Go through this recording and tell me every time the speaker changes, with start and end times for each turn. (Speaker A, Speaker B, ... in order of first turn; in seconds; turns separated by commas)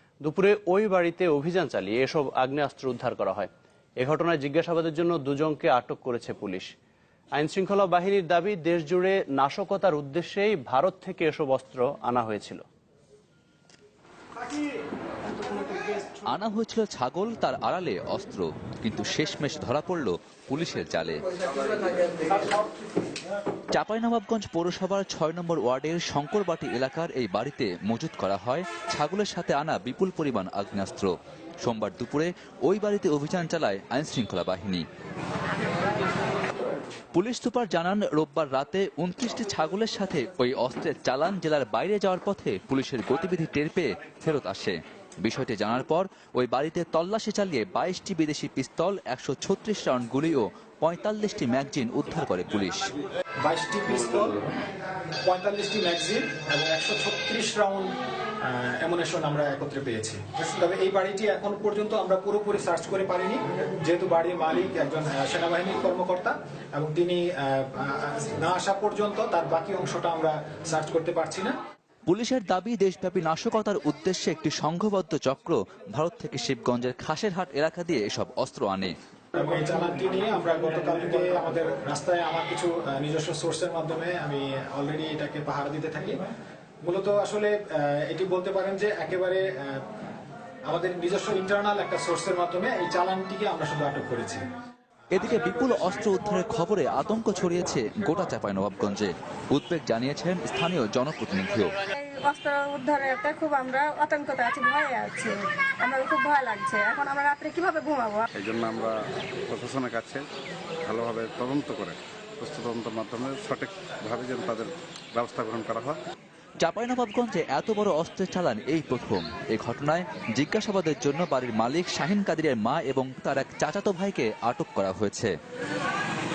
Speaker A: 0.2-6.7, Speaker A: 7.3-12.6, Speaker B: 16.3-21.2, Speaker B: 23.7-31.1, Speaker B: 31.6-34.9, Speaker B: 37.1-52.9, Speaker C: 53.4-54.4, Speaker C: 55.3-57.9, Speaker C: 58.5-71.5, Speaker B: 72.1-78.9, Speaker C: 79.3-86.2, Speaker C: 86.8-89.8, Speaker C: 90.7-94.4, Speaker B: 95.1-101.7, Speaker D: 102.0-108.3, Speaker E: 108.3-108.9, Speaker E: 109.5-110.2, Speaker E: 110.8-116.0, Speaker B: 116.6-125.3